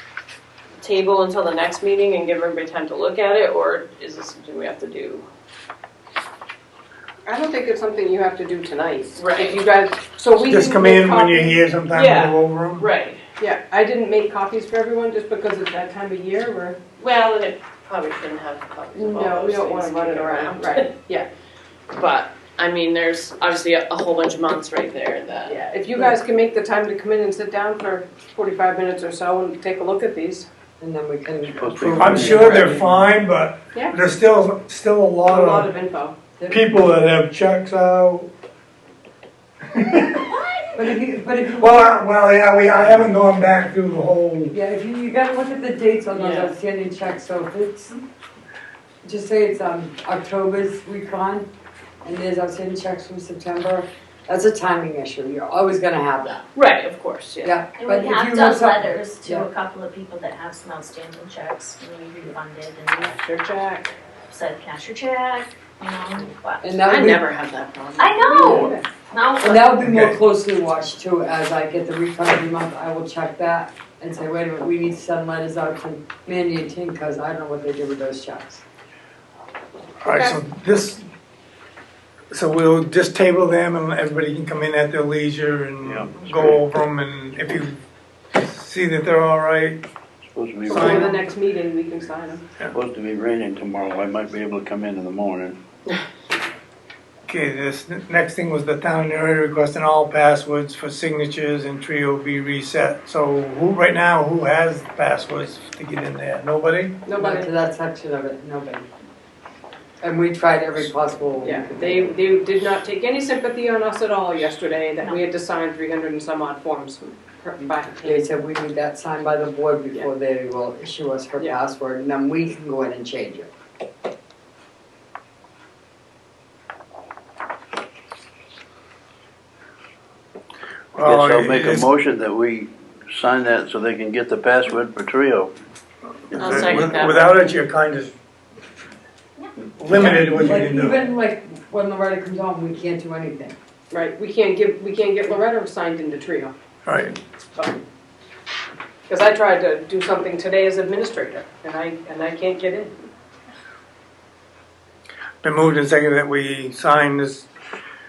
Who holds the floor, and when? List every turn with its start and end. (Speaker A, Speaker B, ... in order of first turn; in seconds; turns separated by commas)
Speaker A: 0.8-5.2, Speaker B: 7.2-11.6, Speaker A: 9.2-9.6, Speaker C: 10.5-12.9, Speaker A: 11.9-13.2, Speaker B: 13.4-16.8, Speaker A: 17.0-20.9, Speaker B: 18.9-21.3, Speaker A: 21.9-25.6, Speaker B: 25.4-30.4, Speaker D: 30.8-32.9, Speaker E: 31.4-32.9, Speaker C: 31.9-35.7, Speaker B: 35.3-36.1, Speaker C: 36.5-38.3, Speaker C: 39.7-40.3, Speaker F: 40.2-40.8, Speaker D: 40.7-42.0, Speaker C: 41.6-44.5, Speaker D: 44.5-48.0, Speaker A: 46.1-46.5, Speaker D: 49.0-51.5, Speaker D: 52.0-56.5, Speaker A: 56.5-57.5, Speaker D: 57.4-59.5, Speaker F: 57.8-63.1, Speaker B: 62.9-63.9, Speaker F: 64.3-66.8, Speaker D: 66.6-67.2, Speaker A: 66.8-68.7, Speaker F: 68.0-69.8, Speaker B: 68.3-68.8, Speaker D: 69.4-78.6, Speaker C: 69.8-70.2, Speaker C: 80.0-81.0, Speaker F: 80.1-80.4, Speaker C: 82.3-87.8, Speaker E: 85.8-86.6, Speaker C: 88.3-89.8, Speaker E: 90.3-90.9, Speaker B: 90.7-92.4, Speaker C: 90.7-91.2, Speaker E: 92.7-95.6, Speaker C: 97.3-107.0, Speaker B: 107.0-107.5, Speaker D: 107.2-108.9, Speaker D: 110.0-112.2, Speaker B: 111.4-118.2, Speaker D: 118.0-123.5, Speaker C: 130.9-131.9, Speaker E: 131.0-135.5, Speaker C: 136.3-138.1, Speaker A: 136.3-137.5, Speaker C: 139.7-141.0, Speaker D: 139.9-143.6, Speaker B: 143.9-146.5, Speaker C: 146.8-147.2, Speaker B: 147.5-147.8, Speaker B: 149.1-152.9, Speaker C: 155.4-157.5